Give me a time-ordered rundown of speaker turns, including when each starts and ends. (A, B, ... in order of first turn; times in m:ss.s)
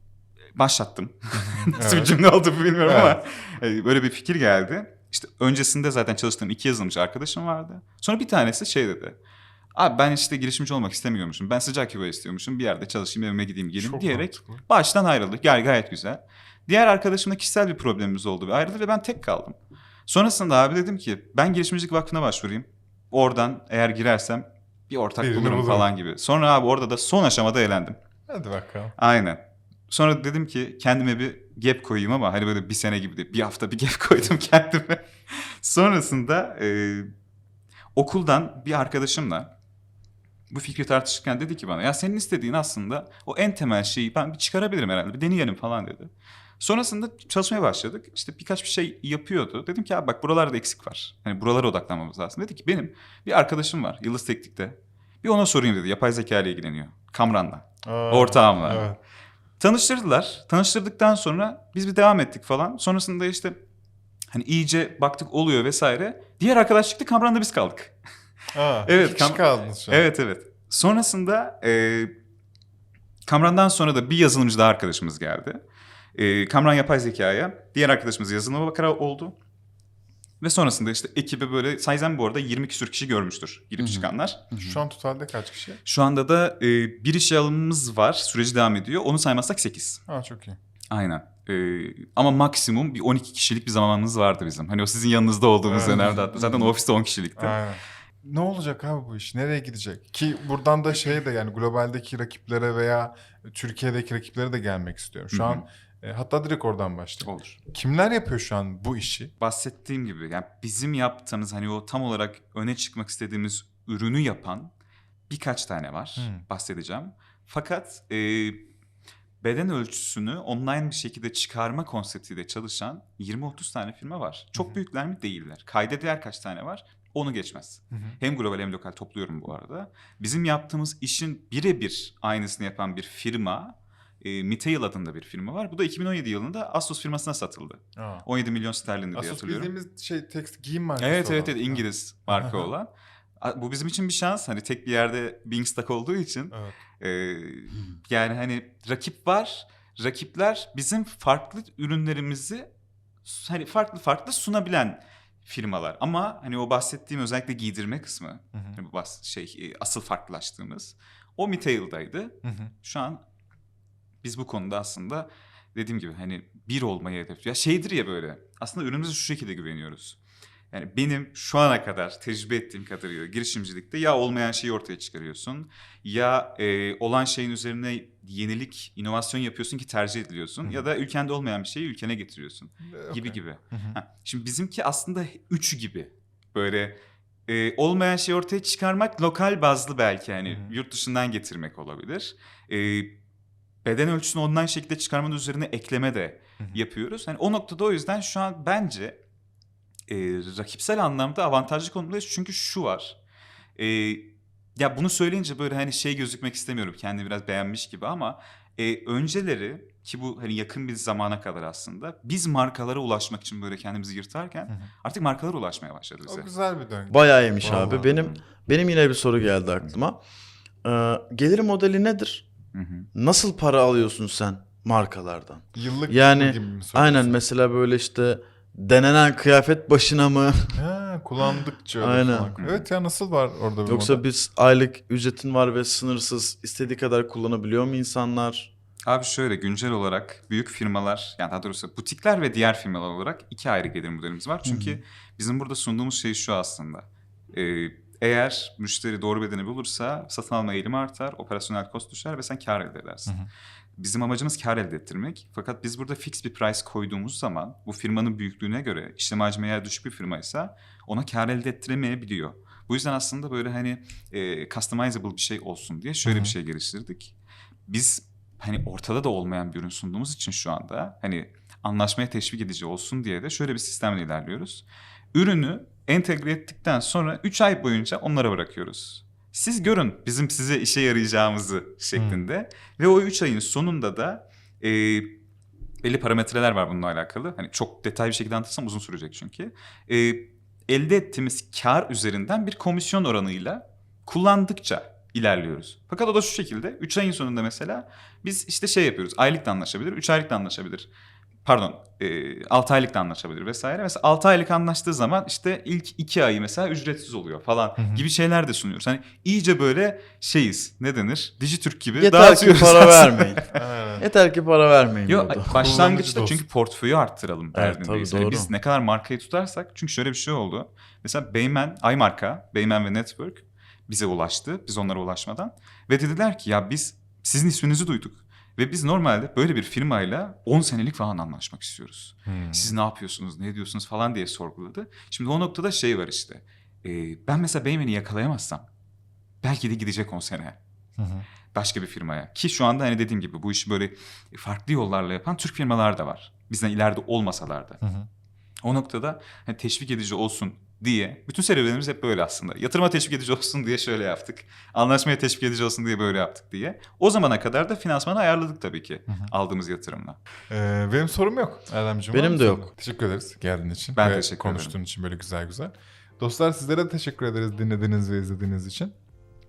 0:00.6-0:09.2 A
0:01.3-0:02.2 B
0:02.8-0:03.2 B
0:09.8-0:19.6 A
0:13.8-0:14.6 B
0:20.1-0:28.0 A
0:25.2-0:25.9 B
0:28.3-0:29.0 B
0:29.0-0:37.1 A
0:38.0-0:39.5 A
0:40.5-0:58.9 A
0:57.8-0:59.0 B
0:59.6-1:03.6 A
1:04.3-1:07.9 A
1:08.5-1:10.1 B
1:08.9-1:12.1 A
1:13.3-1:15.6 A
1:16.2-1:19.4 A
1:20.4-1:24.8 A
1:23.8-1:24.8 C
1:24.6-1:25.8 B
1:25.8-1:30.0 A
1:30.1-1:30.6 B
1:30.9-1:37.6 A
1:35.7-1:36.7 B
1:37.4-1:49.3 B
1:45.3-1:45.6 A
1:47.2-1:47.6 A
1:49.4-1:54.7 A
1:55.3-1:58.6 A
1:56.2-1:56.5 B
1:59.4-2:19.7 A
2:07.9-2:08.2 B
2:18.0-2:18.3 B
2:19.1-2:22.7 B
2:21.0-2:32.7 A
2:26.5-2:26.8 B
2:33.2-2:43.2 A
2:38.5-2:38.8 B
2:42.4-2:42.7 B
2:44.2-2:50.2 A
2:50.7-3:13.1 A
3:02.8-3:04.0 B
3:10.4-3:10.7 B
3:13.8-3:19.2 A
3:20.1-3:23.2 A
3:23.8-3:36.5 A
3:36.3-3:38.2 B
3:37.1-3:40.2 C
3:37.6-3:38.4 A
3:40.8-3:42.5 C
3:42.7-3:43.1 A
3:43.1-3:50.8 C
3:45.8-3:47.4 B
3:50.7-3:54.2 B
3:52.0-3:52.6 C
3:52.6-3:52.9 A
3:53.8-3:58.7 C
3:59.0-4:13.4 A
4:04.6-4:05.0 C
4:14.0-4:27.4 A
4:26.2-4:26.6 B
4:27.9-4:45.4 A
4:42.2-4:42.5 B
4:46.0-5:01.1 A
5:01.6-5:13.6 A
5:08.0-5:08.3 B
5:12.1-5:13.6 C
5:13.7-5:14.2 B
5:14.2-5:15.9 C
5:15.3-5:38.9 A
5:15.7-5:16.6 B
5:17.7-5:18.7 C
5:32.5-5:32.9 B
5:39.6-5:40.8 A
5:41.2-5:41.5 B
5:41.7-5:48.0 A
5:48.0-5:48.3 B
5:48.8-6:00.4 A
5:59.3-5:59.5 B
6:00.7-6:09.1 B
6:02.3-6:02.9 C
6:04.2-6:05.0 A